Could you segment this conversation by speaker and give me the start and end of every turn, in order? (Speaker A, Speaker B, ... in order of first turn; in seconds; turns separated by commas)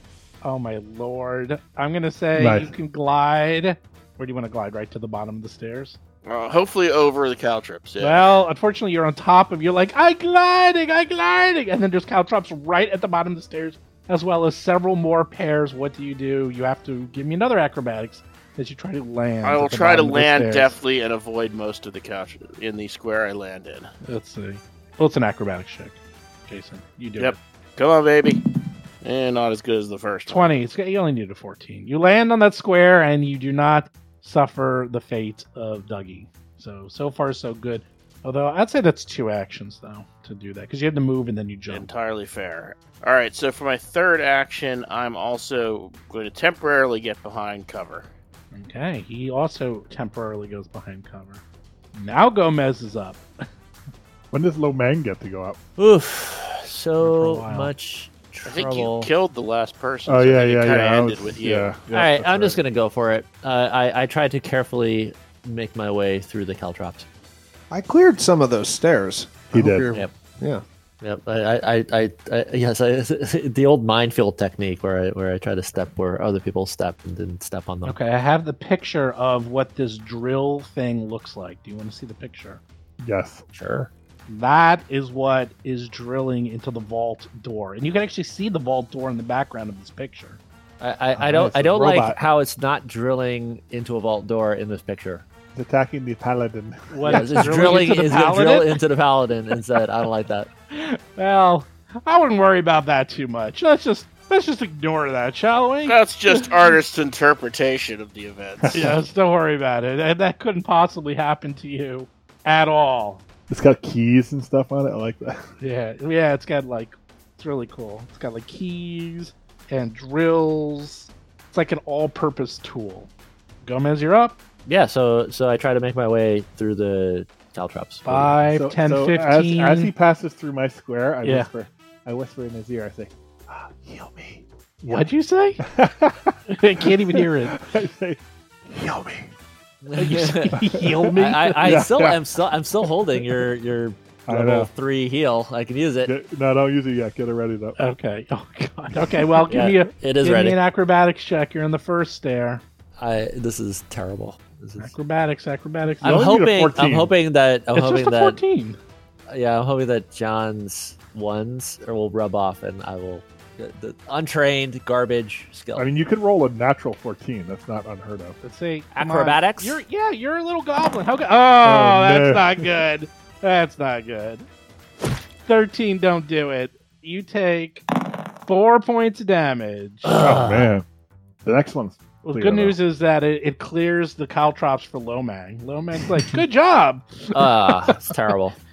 Speaker A: 0.4-6.0, Speaker B: 2.4-2.7, Speaker C: 6.2-8.4, Speaker A: 8.0-20.8, Speaker C: 19.4-23.9, Speaker A: 24.1-27.4, Speaker C: 27.2-28.4, Speaker C: 29.0-30.5, Speaker A: 30.3-41.9, Speaker C: 41.7-48.1, Speaker A: 48.5-51.4, Speaker A: 51.9-53.2, Speaker B: 54.3-55.6, Speaker D: 55.8-59.1, Speaker A: 57.0-57.7, Speaker C: 58.5-61.8, Speaker B: 60.1-62.6, Speaker D: 61.9-67.0, Speaker E: 67.7-70.6, Speaker B: 69.5-69.9, Speaker D: 71.0-78.0, Speaker A: 77.8-82.6, Speaker B: 83.0-83.4, Speaker D: 83.5-83.9, Speaker A: 84.3-90.4, Speaker D: 90.8-95.2, Speaker B: 91.1-92.2, Speaker B: 95.5-98.1, Speaker A: 96.9-98.8, Speaker D: 97.1-100.5, Speaker A: 100.7-106.5, Speaker C: 105.8-108.8, Speaker B: 108.6-109.0, Speaker A: 108.7-113.2, Speaker B: 113.5-115.4, Speaker A: 115.6-123.1, Speaker A: 123.6-124.4, Speaker D: 124.7-128.4, Speaker A: 128.1-129.9, Speaker B: 128.5-135.1, Speaker A: 131.2-131.5, Speaker A: 134.9-135.6, Speaker B: 135.6-139.3, Speaker A: 136.5-137.6, Speaker D: 139.8-140.6, Speaker A: 140.0-141.8, Speaker B: 140.6-141.1, Speaker D: 141.2-146.1, Speaker B: 141.6-142.3, Speaker B: 142.8-143.2, Speaker B: 144.3-144.7, Speaker B: 146.0-147.8, Speaker A: 147.8-152.6, Speaker B: 149.0-149.4, Speaker D: 149.5-150.6, Speaker D: 153.0-154.9, Speaker A: 154.8-156.2, Speaker B: 156.0-157.1, Speaker D: 156.0-158.4, Speaker A: 157.7-158.8, Speaker D: 159.3-165.9, Speaker B: 165.8-168.4, Speaker A: 168.4-174.5, Speaker D: 169.0-169.8, Speaker B: 171.6-172.8, Speaker A: 175.5-177.8, Speaker A: 178.5-180.1, Speaker D: 180.1-180.7, Speaker B: 180.2-180.8, Speaker B: 181.4-182.8, Speaker A: 182.2-188.0, Speaker D: 187.3-188.6